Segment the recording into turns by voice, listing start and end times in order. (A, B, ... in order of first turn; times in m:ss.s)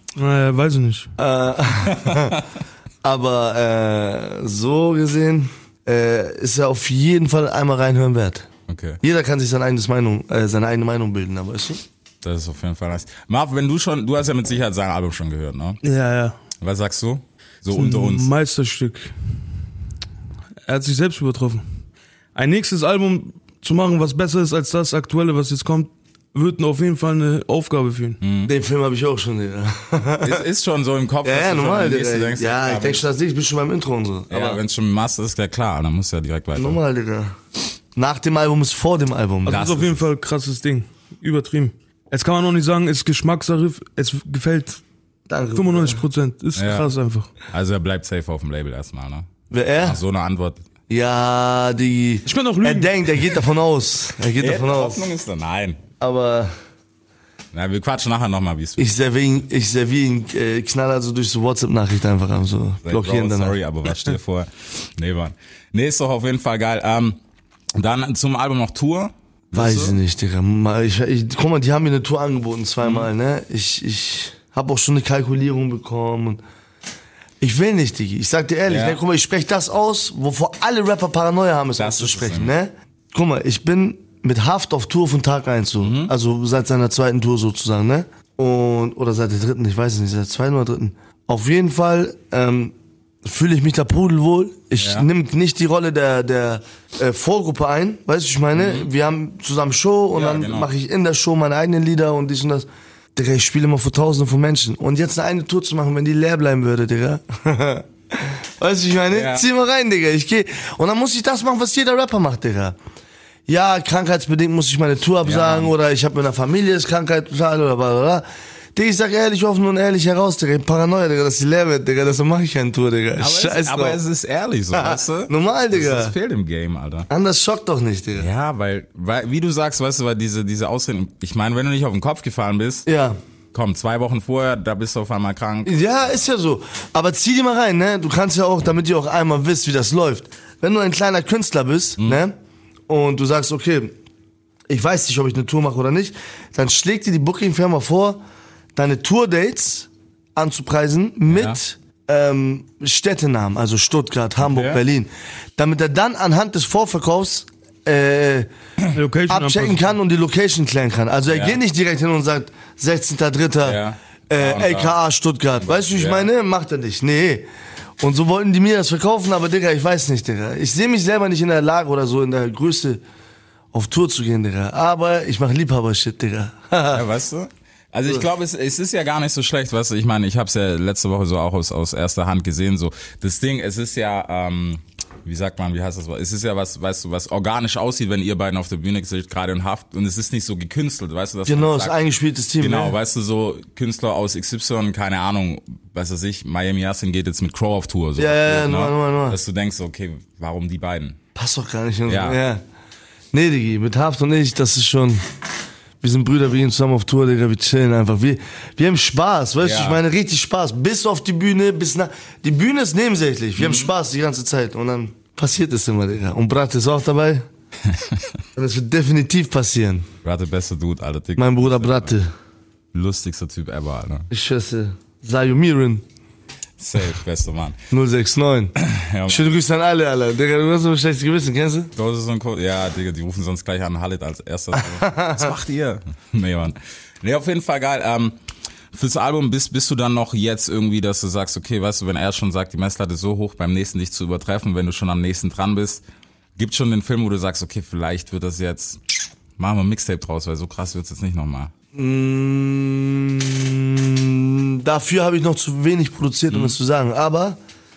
0:00.2-0:01.1 A
0:01.2-0:02.4 B
0:01.9-0:02.4 C
0:03.0-0:08.5 B
0:08.7-0:09.0 C
0:09.0-0:11.8 B
0:12.2-0:15.8 C
0:15.8-0:16.4 A
0:16.6-0:18.3 C
0:17.7-0:19.1 A
0:20.7-0:21.6 A
0:22.4-0:28.2 A
0:28.2-0:28.5 C
0:28.5-0:30.4 B
0:30.2-0:33.1 C
0:31.2-0:34.6 B
0:34.3-0:36.8 C
0:36.6-0:37.4 B
0:38.0-0:39.6 B
0:39.5-0:44.8 A
0:39.5-0:40.0 C
0:45.3-0:46.0 B
0:45.6-0:47.3 A
0:46.6-0:46.9 C
0:47.5-0:49.3 C
0:49.5-0:50.0 B
0:49.8-0:50.6 C
0:50.9-0:55.0 B
0:52.3-0:53.4 A
0:54.4-0:55.8 C
0:56.0-0:56.5 B
0:57.5-0:59.0 C
0:58.8-1:03.6 B
1:02.8-1:07.2 C
1:07.8-1:10.0 C
1:09.6-1:16.4 B
1:12.8-1:13.1 C
1:17.4-1:52.8 B
1:18.7-1:19.0 C
1:21.8-1:22.5 C
1:25.8-1:26.1 C
1:34.8-1:35.1 C
1:38.5-1:38.9 C
1:40.1-1:40.7 C
1:49.1-1:49.5 C
1:53.5-2:04.0 B
1:55.2-1:55.7 C
2:03.2-2:07.1 C
2:04.7-2:06.2 B
2:07.1-2:08.3 B
2:08.2-2:12.9 C
2:12.9-2:13.2 B
2:13.5-2:15.8 C
2:15.6-2:22.4 B
2:22.9-2:23.9 B
2:24.7-2:28.2 B
2:28.8-2:38.5 B
2:31.3-2:31.6 C
2:34.4-2:34.8 C
2:38.9-2:39.9 A
2:39.3-2:43.8 B
2:41.3-2:41.6 C
2:43.6-2:45.0 C
2:44.3-2:47.5 B
2:45.6-2:46.3 C
2:48.0-2:53.0 B
2:53.7-2:57.0 B
2:56.9-3:12.0 C
3:11.5-3:13.0 B
3:12.6-3:21.2 C
3:18.2-3:19.4 B
3:21.4-3:22.6 B
3:22.1-3:22.4 C
3:23.3-3:25.2 B
3:26.0-3:37.4 B
3:29.6-3:30.0 C
3:33.6-3:33.9 C
3:37.9-3:38.3 C
3:38.6-3:40.1 B
3:40.2-3:42.2 C
3:41.4-3:42.3 B
3:42.9-3:44.3 C
3:44.3-3:46.0 B
3:46.8-3:47.8 C
3:47.9-3:48.8 B
3:48.8-3:49.6 C
3:49.3-3:51.9 B
3:52.0-3:58.4 C
3:54.8-3:55.5 B
3:58.9-4:06.0 C
4:06.6-4:09.0 C
4:09.6-4:11.7 C
4:11.9-4:17.6 B
4:16.5-4:16.8 C